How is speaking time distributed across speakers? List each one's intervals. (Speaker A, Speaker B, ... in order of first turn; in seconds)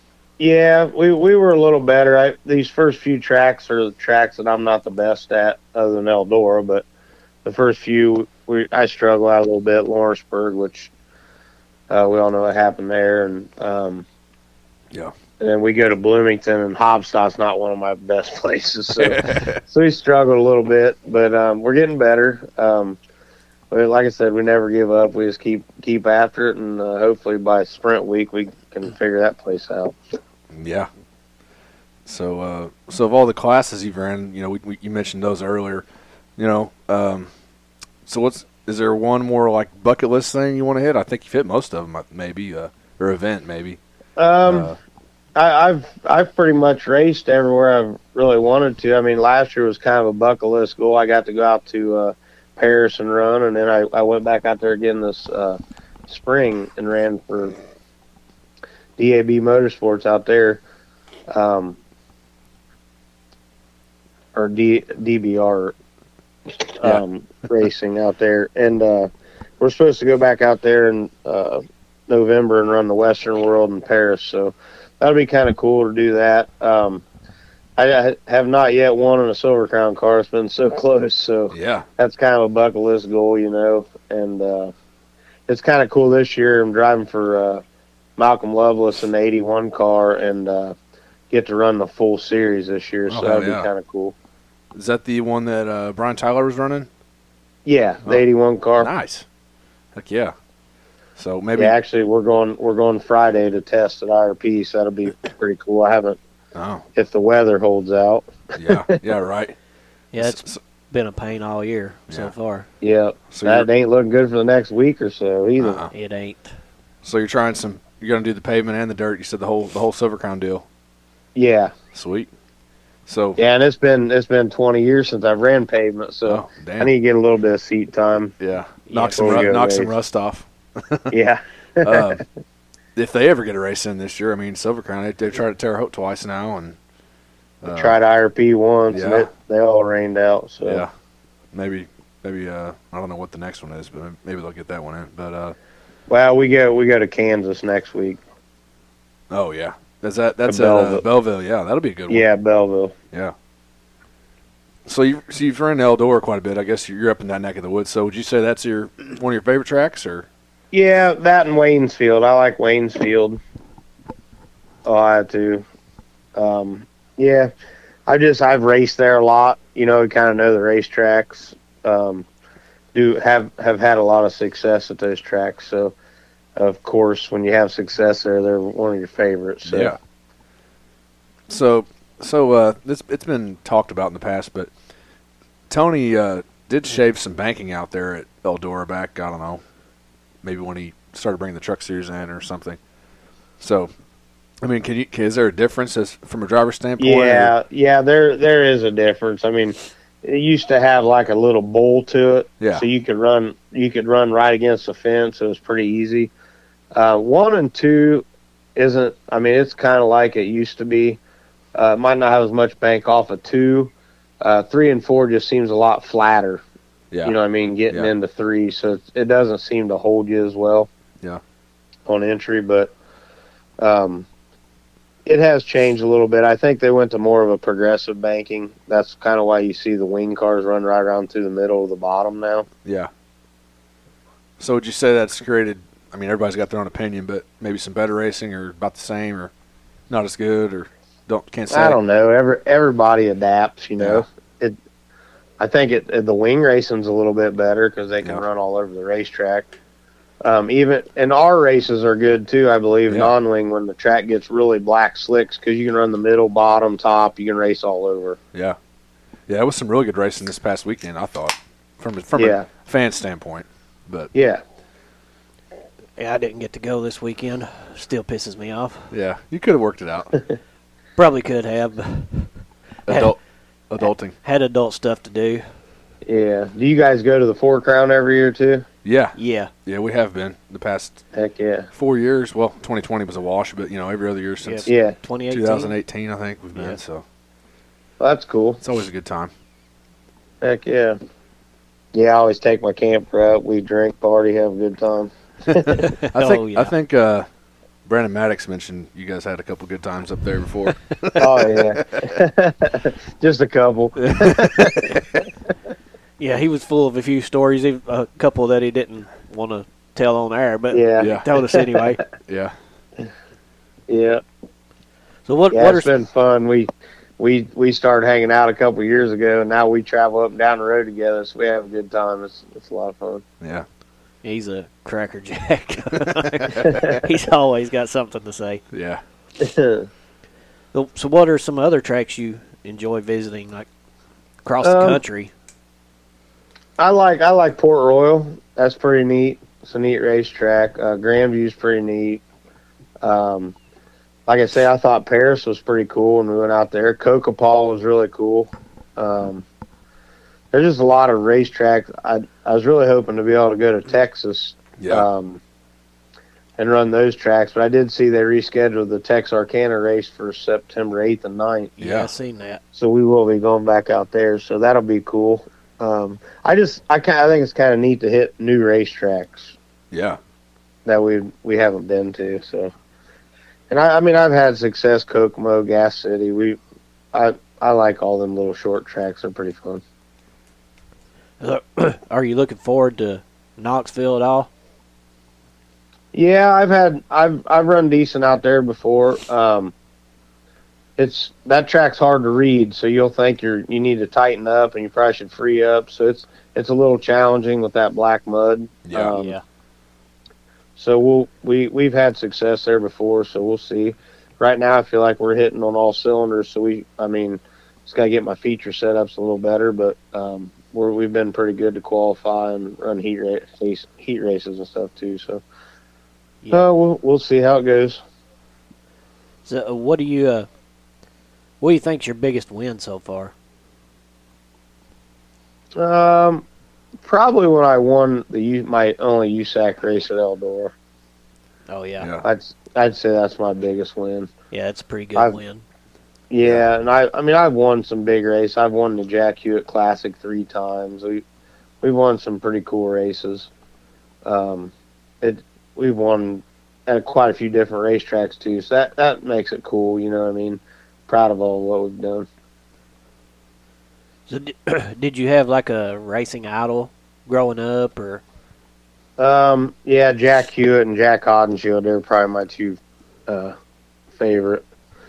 Speaker A: 0.4-6.8, 7.5-10.9, 11.9-14.1, 15.4-23.0, 23.7-30.0, 44.2-44.7, 45.4-57.6, 59.0-60.6, 61.3-61.8, 64.3-65.8, 66.6-77.0, 77.8-84.7, 85.5-87.6, 88.2-90.8, 91.3-94.1, 97.7-98.9, 101.6-106.2, 107.0-109.0, 112.8-115.8, 121.3-121.7, 123.4-128.3, 129.0-129.9, 131.1-132.2, 137.7-140.8, 146.1-148.2, 150.5-151.0, 152.1-152.9, 160.7-163.4, 164.8-165.7, 166.3-167.5, 168.1-172.2, 172.9-175.9, 176.6-179.9, 197.0-206.3, 206.9-211.2, 211.8-216.6, 217.2-220.9, 222.1-222.9, 223.8-224.3, 225.3-232.7, 241.7-244.8, 245.6-249.7, 250.4-258.4, 262.4-262.7, 264.3-264.6, 276.2-278.9, 281.3-281.9, 284.9-285.1, 288.2-288.8, 290.6-291.2, 292.1-296.0, 301.4-305.2, 310.9-311.8, 314.1-314.4, 315.7-323.4, 329.6-330.1, 334.8-335.2, 337.0-342.4, 343.2-343.8, 344.5-349.7, 350.7-355.6, 356.8-361.9, 362.9-369.8, 371.1-372.9, 373.9-376.8, 377.3-380.0, 386.3-389.9, 391.2-399.6, 401.0-415.6, 416.7-418.2, 426.0-426.6, 427.2-430.9, 432.4-434.5, 436.5-441.4, 442.0-443.7, 444.4-452.5, 459.4-463.8, 464.4-464.8
Speaker B: 19.0-19.6, 30.5-30.9, 32.1-35.9, 36.4-37.3, 38.1-43.8, 44.5-44.8, 81.5-81.8, 93.1-93.7, 94.7-96.9, 98.8-99.3, 100.0-100.3, 101.2-101.8, 106.5-106.8, 108.6-109.6, 110.2-110.6, 113.3-113.7, 115.6-115.9, 117.0-120.7, 121.9-122.3, 123.1-123.4, 126.3-126.9, 128.4-131.1, 131.8-132.2, 133.0-136.8, 137.6-138.0, 138.9-139.3, 140.6-140.9, 141.5-145.5, 149.3-152.2, 154.8-160.3, 179.7-180.0, 181.5-184.7, 185.7-189.6, 190.4-192.8, 193.6-193.9, 194.6-197.5, 202.6-202.8, 232.8-233.1, 234.6-239.5, 240.1-242.0, 244.0-244.2, 259.5-264.3, 269.1-270.3, 273.1-273.4, 273.9-274.4, 279.0-281.2, 281.9-284.9, 285.5-287.2, 288.8-289.5, 296.3-297.5, 298.1-302.4, 304.2-305.4, 311.2-311.5, 312.4-312.8, 323.6-323.9, 326.6-327.2, 328.9-329.2, 355.0-355.3, 362.0-362.3, 370.1-370.4, 399.1-399.3, 432.2-432.4, 436.6-436.9
Speaker C: 110.1-112.7, 115.9-116.5, 128.9-129.5, 266.2-269.1, 271.2-272.5, 273.1-273.4, 274.0-275.6, 279.4-279.7, 284.6-285.9, 295.9-296.9, 306.4-312.2, 315.5-316.1, 324.4-328.8, 330.9-333.9, 334.6-335.5, 362.0-362.8, 381.6-384.7, 399.3-399.6, 419.7-420.7, 421.8-423.5, 431.9-432.3, 434.7-435.8, 454.5-458.4